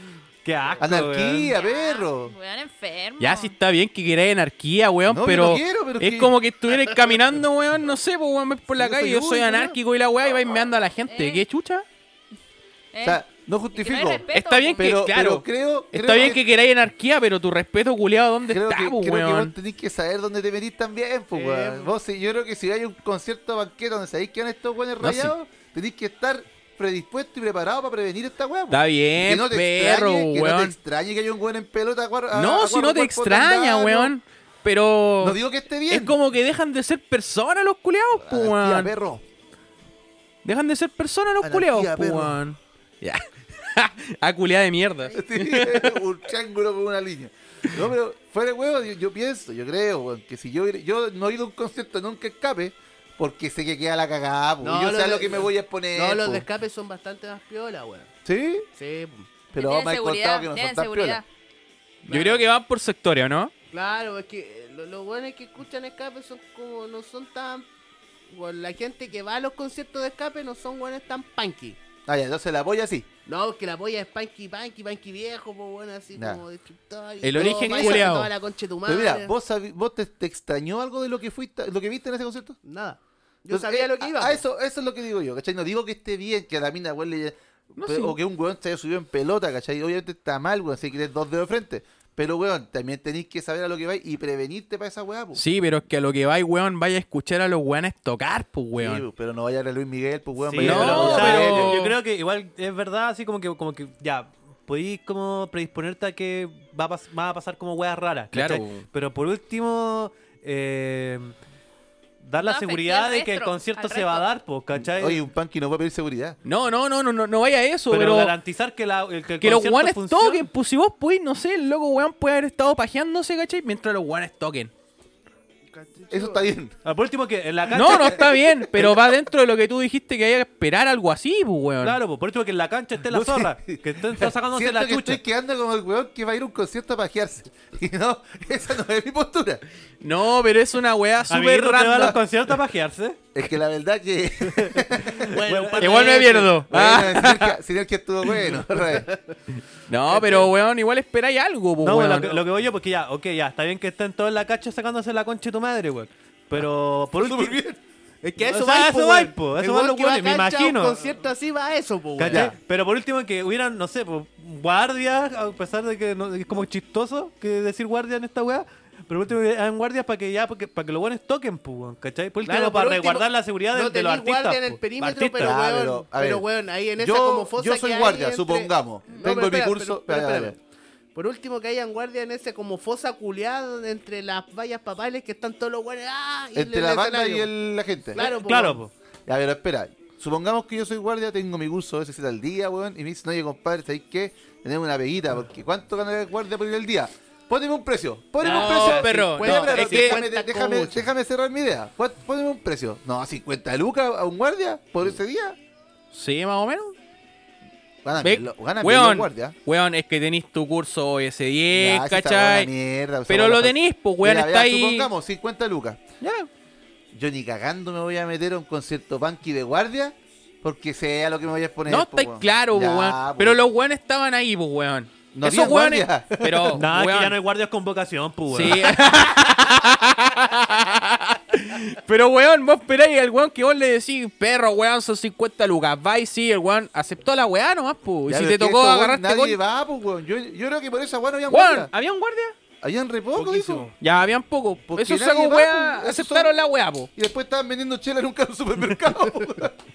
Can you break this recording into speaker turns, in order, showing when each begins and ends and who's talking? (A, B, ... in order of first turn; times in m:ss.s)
0:00.4-0:01.5 A
0:00.8-0:02.3 B
0:01.5-0:03.5 C
0:03.2-0:11.8 D
0:05.1-0:07.1 B
0:08.7-0:09.8 B
0:11.0-0:11.4 C
0:12.9-0:13.2 C
0:13.0-0:14.2 B
0:13.7-0:15.0 C
0:14.3-0:19.5 D
0:14.8-0:16.4 B
0:18.5-0:34.1 B
0:21.3-0:21.9 E
0:25.0-0:25.3 D
0:28.7-0:30.7 D
0:32.3-0:38.9 D
0:35.2-0:36.1 B
0:38.2-0:39.2 B
0:40.4-0:46.0 D
0:41.4-0:42.4 B
0:45.1-0:56.4 B
0:54.6-0:58.1 E
0:58.2-0:58.7 B
0:58.7-0:59.3 E
0:59.5-1:01.2 B
0:59.5-1:01.2 C
1:02.0-1:02.5 E
1:02.0-1:03.5 D
1:03.7-1:07.7 E
1:08.3-1:11.8 E
1:12.1-1:13.1 B
1:13.2-1:19.3 E
1:16.1-1:16.4 B
1:17.2-1:18.3 D
1:17.4-1:18.1 B
1:18.8-1:22.6 B
1:22.6-1:24.4 E
1:23.5-1:35.4 B
1:27.8-1:28.2 D
1:35.3-1:39.0 D
1:38.8-1:41.8 B
1:40.4-1:51.3 A
1:40.6-1:42.0 D
1:48.3-1:48.8 D
1:52.2-1:55.2 A
1:52.4-1:54.3 C
1:54.8-1:56.4 B
1:56.4-1:58.4 D
1:57.9-2:00.4 A
1:59.4-2:04.7 D
2:05.7-2:06.4 E
2:06.1-2:06.8 B
2:06.8-2:08.3 A
2:07.7-2:12.0 D
2:08.3-2:08.9 B
2:11.8-2:15.2 A
2:13.1-2:19.6 B
2:20.0-2:22.2 D
2:21.3-2:23.2 A
2:23.3-2:25.3 B
2:24.4-2:26.4 A
2:25.2-2:26.6 E
2:25.8-2:27.6 D
2:26.7-2:29.1 B
2:28.8-2:29.3 E
2:29.9-2:32.4 D
2:30.1-2:30.5 E
2:31.8-2:37.6 A
2:37.1-2:37.8 B
2:38.2-2:42.5 E
2:38.4-2:41.0 A
2:42.2-2:55.6 A
2:42.2-2:42.5 B
2:52.4-3:00.6 E
2:55.4-2:56.4 B
2:57.0-3:00.6 B
3:01.1-3:07.5 E
3:06.5-3:08.2 B
3:08.1-3:08.8 E
3:08.2-3:08.9 A
3:09.3-3:25.6 B
3:18.4-3:21.1 E
3:18.4-3:20.2 D
3:26.1-3:26.9 D
3:28.0-3:29.5 B
3:28.2-3:32.7 D
3:31.7-3:36.0 B
3:33.3-3:35.1 D
3:36.2-3:36.5 D
3:37.1-3:43.6 B
3:41.9-3:47.4 D
3:45.3-3:46.8 B
3:46.7-3:48.9 A
3:48.5-3:59.6 D
3:58.3-4:01.9 B
4:01.5-4:02.5 D
4:02.8-4:03.9 B
4:03.3-4:03.9 A
4:04.0-4:07.1 D
4:04.9-4:06.5 B
4:07.1-4:09.8 B